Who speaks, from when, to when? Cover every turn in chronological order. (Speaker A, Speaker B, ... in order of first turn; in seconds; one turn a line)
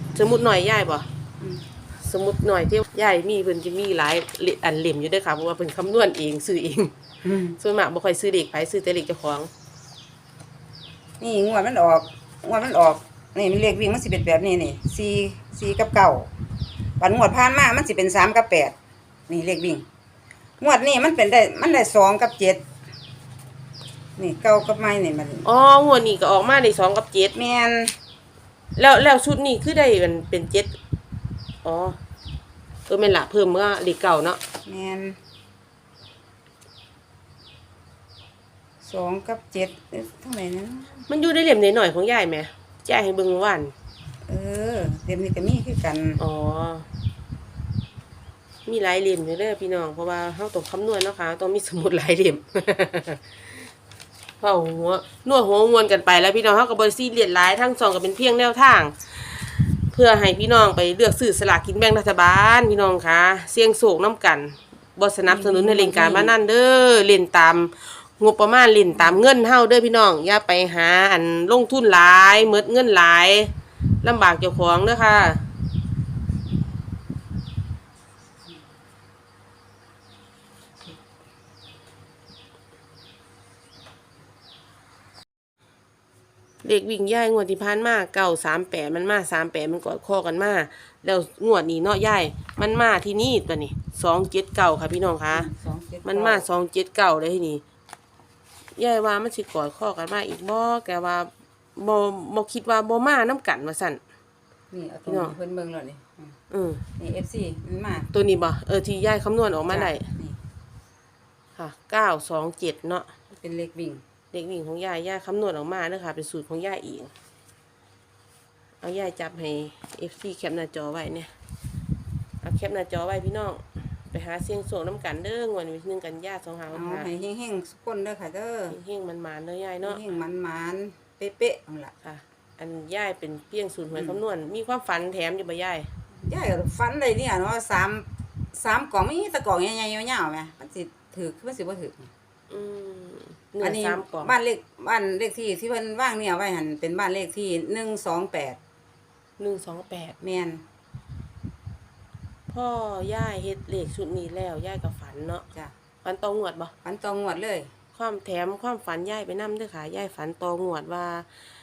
Speaker A: 0.1-1.1
Speaker A: 2.0-6.9
Speaker B: 7.2-7.6
Speaker A: 7.5-9.5
Speaker B: 11.2-16.3
Speaker B: 17.0-18.8
Speaker B: 19.3-19.9
Speaker B: 20.6-22.6
Speaker B: 24.2-25.4
Speaker A: 25.4-27.4
Speaker B: 27.4-27.9
Speaker A: 28.8-30.8
Speaker A: 31.6-32.0
Speaker A: 32.9-34.4
Speaker B: 34.7-35.2
Speaker B: 38.8-41.1
Speaker A: 41.1-43.7
Speaker B: 44.3-46.2
Speaker A: 46.2-46.9
Speaker A: 48.7-53.2
Speaker A: 54.4-75.4
Speaker B: 65.3-66.3
Speaker B: 69.0-69.2
Speaker A: 86.6-95.5
Speaker B: 95.3-96.5
Speaker A: 96.0-97.6
Speaker A: 98.8-104.0
Speaker B: 104.7-106.3
Speaker A: 105.1-105.3
Speaker A: 106.5-106.8
Speaker B: 107.0-108.1
Speaker A: 108.1-110.1
Speaker B: 109.7-110.4
Speaker A: 111.6-113.1
Speaker B: 113.4-114.0
Speaker A: 114.3-117.1
Speaker A: 118.8-121.3
Speaker A: 122.4-127.1
Speaker B: 126.7-128.8
Speaker A: 128.7-130.1
Speaker B: 129.8-131.9
Speaker A: 132.0-135.9
Speaker B: 136.2-142.1
Speaker A: 142.5-144.3
Speaker B: 143.6-148.6
Speaker A: 149.4-150.2
Speaker B: 150.2-150.6
Speaker A: 152.5-155.4
Speaker A: 156.0-156.7
Speaker B: 156.8-157.7
Speaker A: 157.9-161.3